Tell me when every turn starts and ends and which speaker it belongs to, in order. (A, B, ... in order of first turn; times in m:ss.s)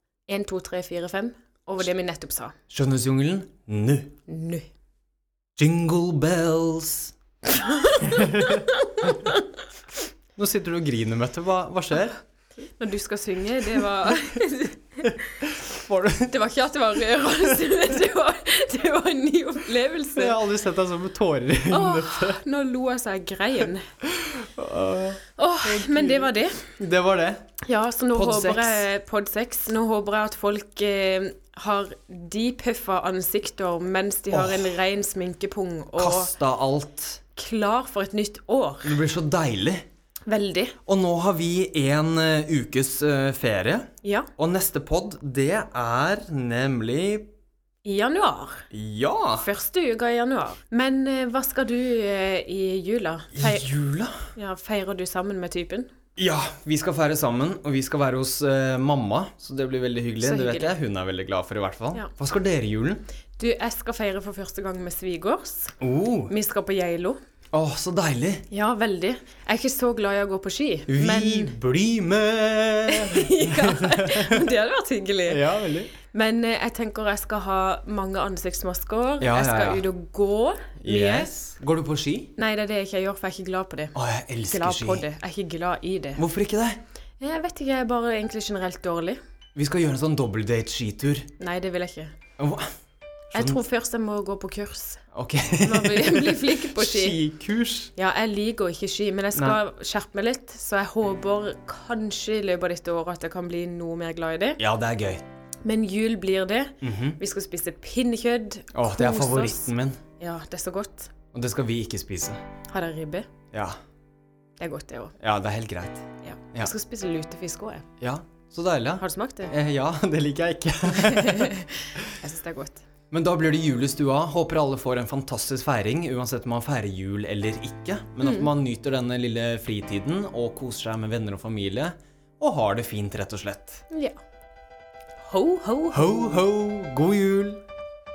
0:00.3-0:02.5 A
0:02.7-0:04.2 B
0:04.3-0:04.6 A
0:05.6-0:07.1 B
0:07.4-0:09.4 A
0:08.0-0:08.6 B
0:10.4-0:12.2 B
0:12.8-0:15.3 A
0:15.4-0:16.3 B
0:16.2-0:20.4 A
0:20.2-0:22.4 B
0:21.7-0:23.8 A
0:24.0-0:27.4 B
0:25.4-0:26.6 A
0:27.6-0:36.3 A
0:28.1-0:28.8 B
0:34.3-0:34.7 B
0:36.0-0:37.2 B
0:37.4-0:39.0 A
0:38.8-0:39.8 B
0:40.3-0:40.8 A
0:40.8-0:47.3 B
0:44.0-0:44.3 A
0:47.8-0:48.6 A
0:48.7-0:49.5 B
0:49.4-0:53.7 A
0:53.3-0:54.3 B
0:54.3-0:55.9 A
0:56.2-1:03.0 B
1:00.2-1:00.7 A
1:03.4-1:05.8 A
1:05.8-1:06.3 B
1:06.3-1:07.2 A
1:07.5-1:08.4 B
1:08.5-1:11.5 A
1:10.9-1:14.4 B
1:12.9-1:15.4 A
1:15.3-1:15.9 B
1:16.1-1:21.3 A
1:19.2-1:19.8 B
1:20.8-1:22.3 B
1:22.4-1:26.2 A
1:23.9-1:25.0 B
1:26.2-1:26.8 B
1:27.2-1:29.2 A
1:29.6-1:31.3 B
1:31.4-1:32.2 A
1:32.4-1:32.7 B
1:33.3-1:33.6 B
1:33.3-1:35.0 A
1:35.1-1:37.9 B
1:35.6-1:37.2 A
1:38.0-1:44.6 A
1:44.6-1:45.2 B
1:45.6-1:51.1 A
1:46.8-1:47.2 B
1:48.7-1:50.0 B
1:51.3-1:52.4 B
1:52.7-1:53.3 A
1:53.5-1:53.8 B
1:54.6-1:55.1 A
1:55.2-1:56.7 B
1:56.2-1:57.8 A
1:58.0-2:02.1 B
1:59.0-1:59.5 A
2:00.9-2:02.8 A
2:03.1-2:13.8 B
2:08.2-2:08.5 A
2:13.9-2:14.2 A
2:15.2-2:16.1 A
2:15.9-2:17.6 B